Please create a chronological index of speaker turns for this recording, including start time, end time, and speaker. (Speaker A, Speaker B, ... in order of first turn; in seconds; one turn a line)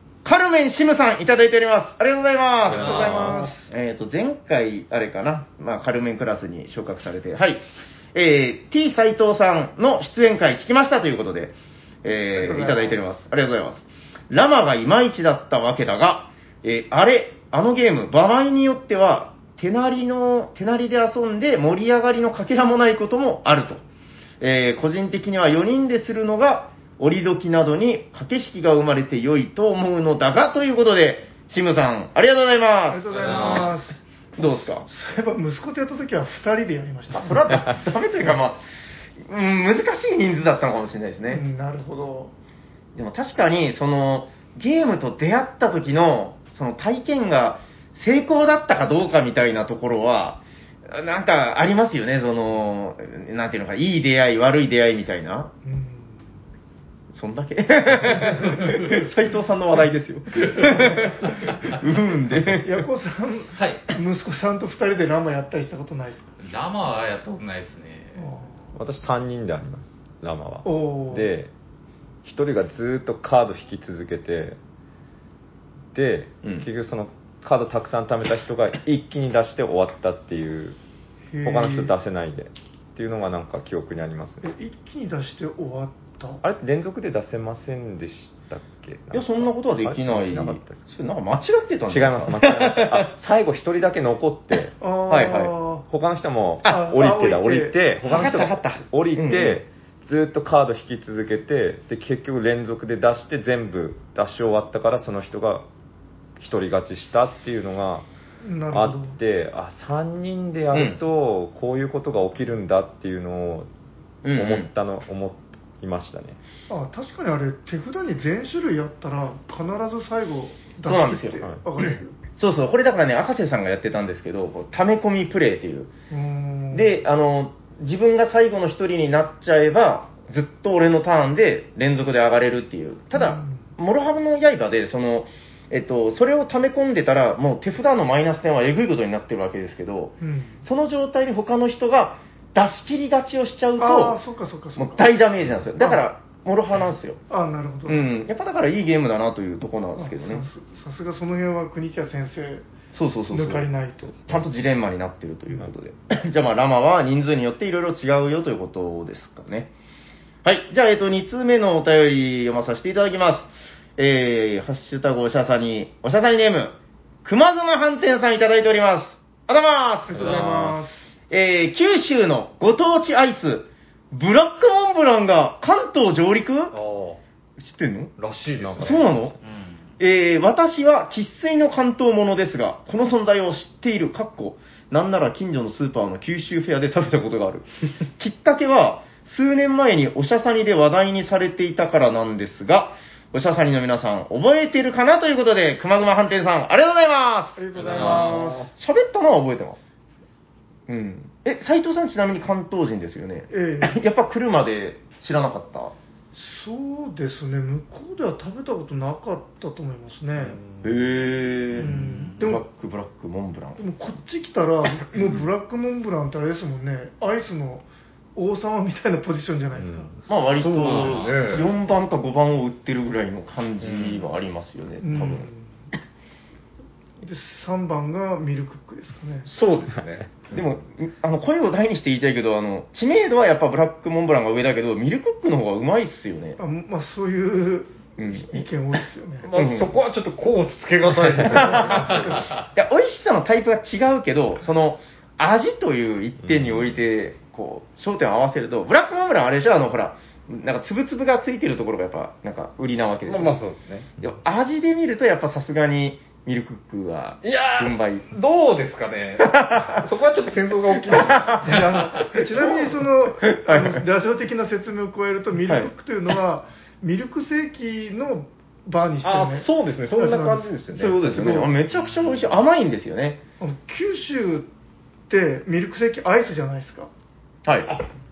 Speaker A: 0.2-23.8
Speaker B: 2.7-3.3
Speaker C: 2.7-3.5
Speaker D: 2.9-3.3
Speaker E: 3.1-3.5
Speaker C: 12.3-13.0
Speaker A: 24.4-33.8
Speaker C: 32.9-37.7
Speaker B: 33.1-33.8
Speaker A: 34.4-34.9
Speaker A: 37.1-38.6
Speaker A: 39.2-41.5
Speaker C: 41.3-42.3
Speaker A: 43.0-55.5
Speaker C: 55.6-56.2
Speaker A: 57.1-62.8
Speaker C: 60.4-61.5
Speaker C: 62.5-66.3
Speaker B: 63.5-63.8
Speaker B: 66.4-68.3
Speaker C: 68.2-68.5
Speaker D: 68.7-71.5
Speaker C: 70.7-71.3
Speaker D: 72.2-74.6
Speaker D: 75.9-80.8
Speaker C: 81.3-81.9
Speaker D: 81.4-84.5
Speaker C: 84.4-86.4
Speaker D: 86.4-90.8
Speaker A: 89.1-93.1
Speaker D: 91.9-94.7
Speaker C: 94.8-95.9
Speaker A: 95.1-95.5
Speaker D: 95.9-105.7
Speaker C: 96.7-97.8
Speaker A: 98.0-99.6
Speaker D: 106.4-108.1
Speaker C: 108.4-109.2
Speaker D: 108.7-113.7
Speaker A: 110.7-111.0
Speaker A: 114.2-114.7
Speaker D: 114.4-116.4
Speaker C: 116.7-122.2
Speaker A: 120.8-125.9
Speaker C: 126.1-126.9
Speaker A: 126.7-144.2
Speaker C: 133.2-133.6
Speaker C: 140.2-140.6
Speaker C: 143.8-145.1
Speaker A: 144.8-147.2
Speaker C: 145.8-146.0
Speaker C: 147.3-148.0
Speaker A: 147.8-150.4
Speaker C: 150.0-152.7
Speaker A: 152.9-153.7
Speaker C: 153.3-154.2
Speaker A: 154.3-159.7
Speaker A: 160.4-170.8
Speaker C: 170.1-171.0
Speaker B: 170.2-170.7
Speaker A: 171.3-176.8
Speaker E: 176.7-177.2
Speaker A: 177.6-178.1
Speaker E: 178.2-179.1
Speaker D: 178.6-179.3
Speaker A: 178.8-179.3
Speaker B: 179.4-179.8
Speaker A: 180.0-199.9
Speaker E: 197.6-198.7
Speaker B: 197.8-198.4
Speaker C: 197.8-198.3
Speaker A: 200.9-205.9
Speaker C: 203.5-204.0
Speaker C: 206.3-210.6
Speaker E: 210.6-211.1
Speaker A: 210.8-213.8
Speaker C: 211.8-212.6
Speaker B: 211.9-212.4
Speaker C: 213.8-220.1
Speaker D: 219.8-220.2
Speaker A: 220.3-225.5
Speaker E: 220.6-221.7
Speaker B: 220.8-221.4
Speaker E: 223.8-224.3
Speaker C: 225.0-225.7
Speaker C: 227.2-229.5
Speaker E: 229.4-230.7
Speaker A: 230.5-236.6
Speaker C: 236.6-239.5
Speaker A: 238.2-238.7
Speaker E: 239.4-242.7
Speaker A: 239.5-240.0
Speaker A: 241.4-253.6
Speaker B: 242.1-242.7
Speaker D: 246.4-247.0
Speaker E: 253.3-254.1
Speaker A: 254.2-258.3
Speaker E: 257.4-262.9
Speaker A: 259.4-260.1
Speaker A: 261.0-262.0
Speaker C: 261.6-270.8
Speaker A: 263.4-264.0
Speaker A: 265.6-265.9
Speaker E: 269.2-271.6
Speaker A: 270.9-273.4
Speaker C: 271.3-271.7
Speaker B: 271.9-272.5
Speaker C: 273.6-274.7
Speaker C: 275.3-277.1
Speaker A: 277.6-277.9